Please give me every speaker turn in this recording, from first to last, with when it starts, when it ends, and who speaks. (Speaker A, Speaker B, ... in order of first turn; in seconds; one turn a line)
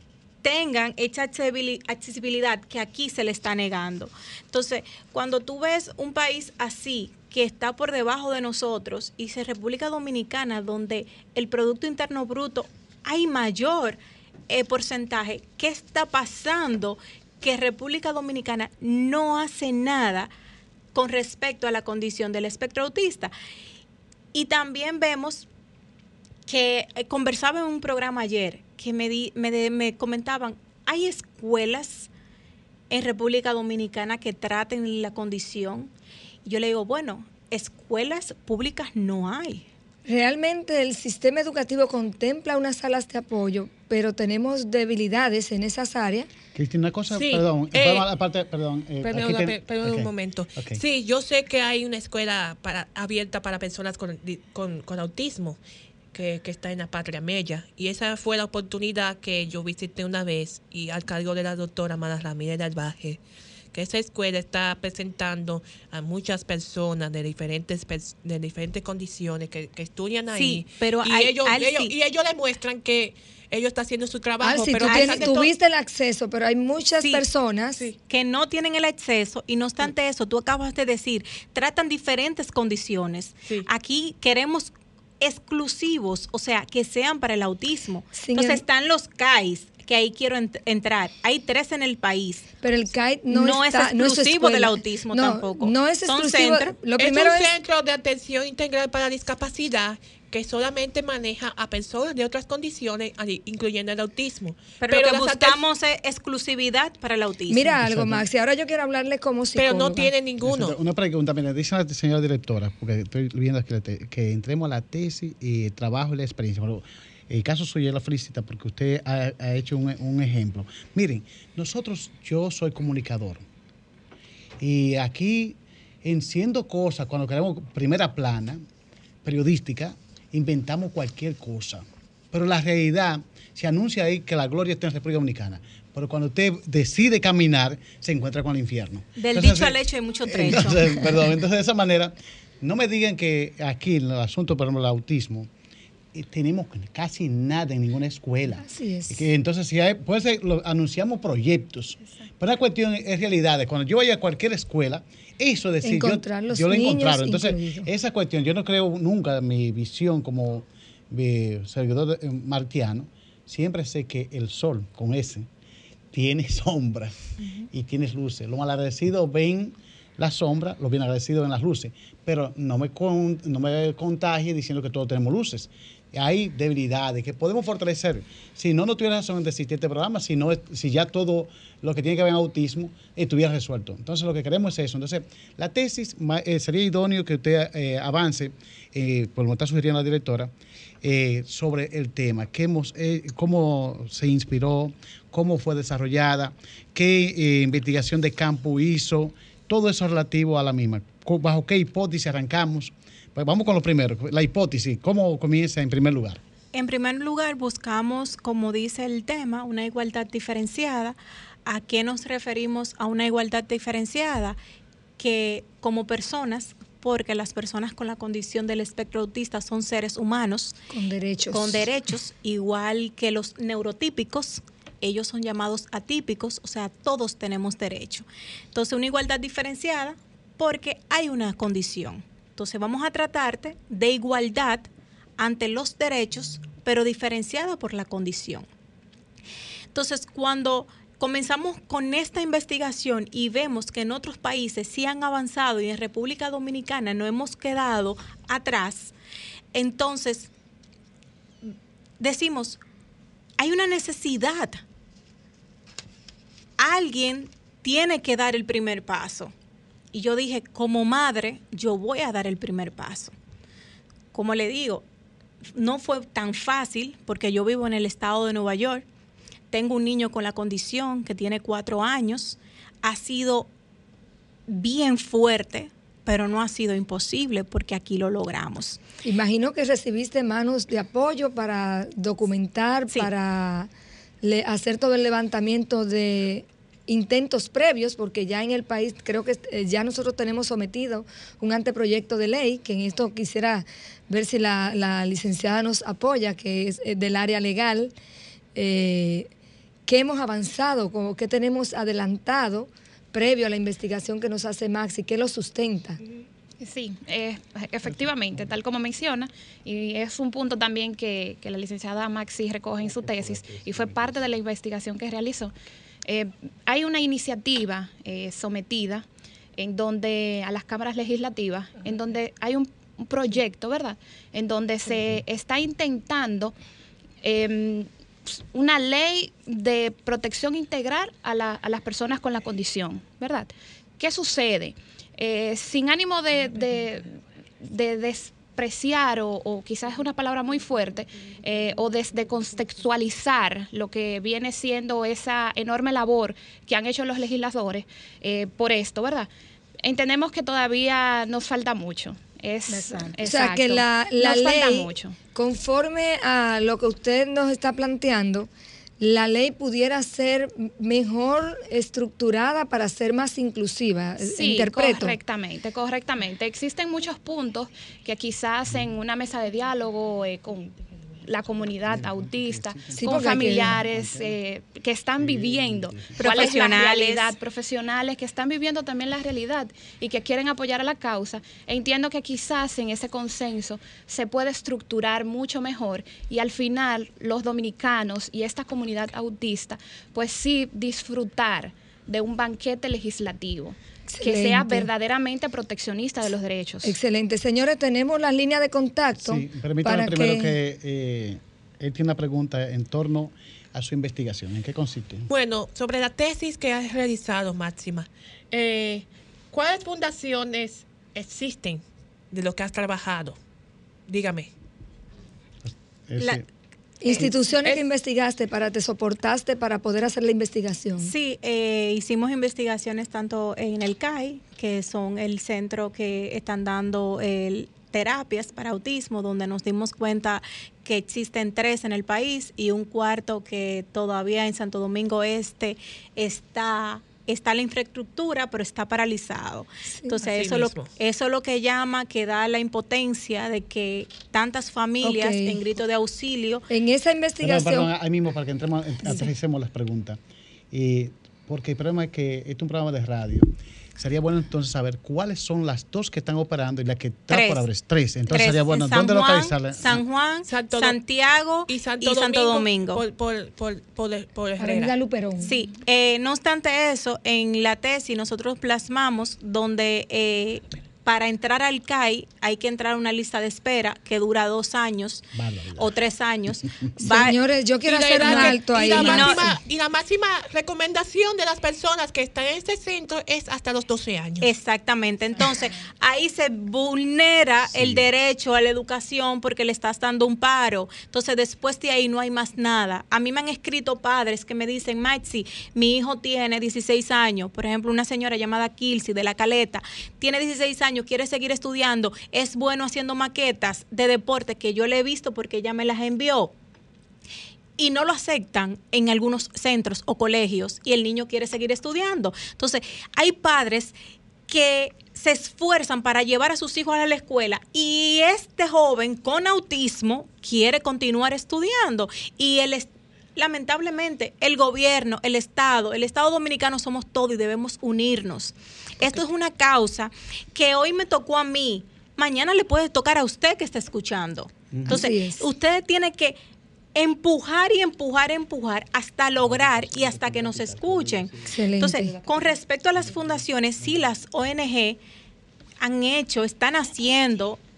Speaker A: 0.4-14.0
Speaker A: 14.5-20.3
Speaker A: 20.9-23.3
Speaker A: 24.3-25.5
Speaker A: 26.5-32.1
Speaker A: 32.9-35.9
Speaker A: 36.4-39.6
Speaker B: 40.0-46.3
Speaker C: 46.5-50.8
Speaker D: 47.1-48.0
Speaker D: 49.0-55.6
Speaker D: 56.1-63.2
Speaker D: 63.7-75.5
Speaker A: 70.3-71.9
Speaker B: 74.4-77.9
Speaker A: 74.8-75.4
Speaker A: 78.1-92.5
Speaker B: 88.2-88.6
Speaker B: 92.6-97.5
Speaker A: 93.3-96.7
Speaker D: 97.0-105.6
Speaker A: 104.8-107.8
Speaker B: 107.5-110.1
Speaker C: 107.8-108.2
Speaker D: 109.5-110.8
Speaker C: 110.4-123.4
Speaker C: 124.6-128.6
Speaker C: 129.2-145.5
Speaker A: 139.2-141.2
Speaker C: 146.1-165.5
Speaker B: 148.6-149.2
Speaker B: 155.8-157.9
Speaker C: 166.1-206.4
Speaker A: 206.7-214.6
Speaker A: 215.2-220.8
Speaker B: 220.9-221.8
Speaker A: 221.5-238.7
Speaker A: 239.9-249.1
Speaker A: 249.7-250.5
Speaker A: 251.6-252.8
Speaker A: 253.6-254.8
Speaker A: 256.8-259.5
Speaker A: 260.1-263.3
Speaker A: 264.3-265.0
Speaker A: 265.7-269.0
Speaker A: 269.7-273.7
Speaker A: 274.7-279.0
Speaker B: 279.2-283.9
Speaker B: 284.4-298.1
Speaker B: 298.8-299.5
Speaker B: 300.1-306.2
Speaker E: 306.8-315.7
Speaker E: 316.2-326.7
Speaker E: 327.4-349.5
Speaker E: 350.0-355.4
Speaker A: 352.9-353.3
Speaker B: 353.1-358.7
Speaker B: 359.2-365.4
Speaker E: 364.4-397.1
Speaker C: 372.9-374.4
Speaker B: 373.1-374.0
Speaker C: 375.4-376.4
Speaker A: 376.4-377.5
Speaker B: 394.3-395.1
Speaker B: 397.0-400.7
Speaker C: 399.4-405.5
Speaker D: 405.5-413.6
Speaker D: 414.3-414.7
Speaker C: 415.8-416.6
Speaker B: 417.2-421.3
Speaker D: 417.3-418.1
Speaker A: 421.2-446.8
Speaker D: 440.4-441.1
Speaker B: 445.2-445.8
Speaker B: 446.9-448.1
Speaker C: 447.6-450.4
Speaker C: 450.9-460.2
Speaker A: 457.5-457.8
Speaker A: 458.5-463.2
Speaker D: 460.6-461.2
Speaker D: 461.9-465.1
Speaker B: 464.8-465.7
Speaker A: 465.6-477.6
Speaker C: 475.5-476.2
Speaker B: 477.2-479.7
Speaker D: 478.0-484.7
Speaker A: 478.4-479.7
Speaker A: 484.6-506.7
Speaker C: 487.8-488.2
Speaker A: 508.0-514.1
Speaker A: 514.7-536.6
Speaker C: 534.9-535.2
Speaker B: 535.0-535.6
Speaker A: 537.1-545.2
Speaker C: 539.6-541.5
Speaker B: 541.7-542.3
Speaker C: 543.2-543.5
Speaker A: 546.0-547.8